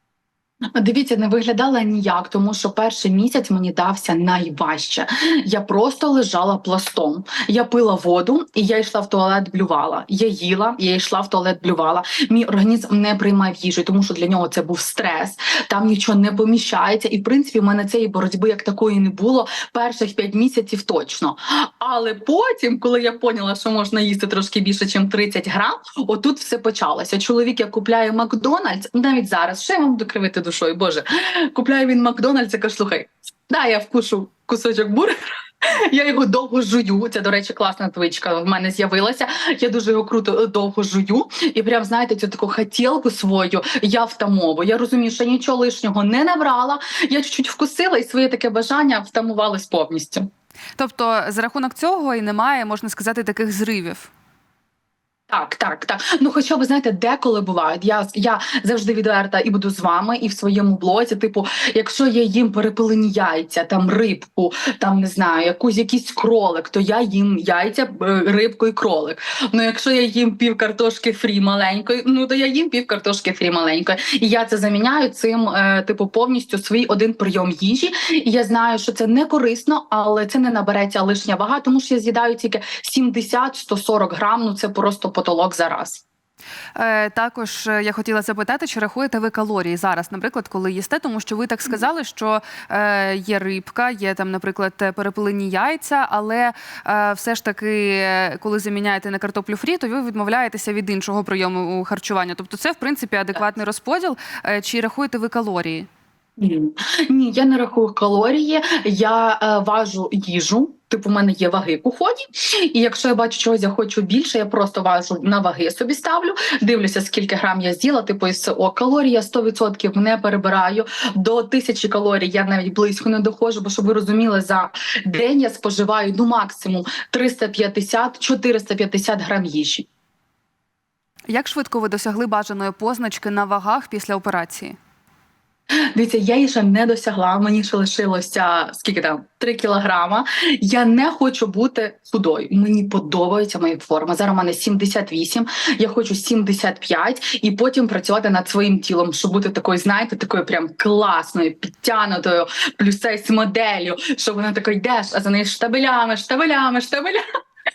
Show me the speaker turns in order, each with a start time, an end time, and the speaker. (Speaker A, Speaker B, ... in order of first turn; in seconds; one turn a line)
Speaker A: 0.8-50.3
Speaker B: 50.8-54.1
Speaker A: 55.3-86.0
Speaker B: 86.8-105.9
Speaker A: 106.4-129.9
Speaker B: 131.3-134.8
Speaker A: 135.9-157.2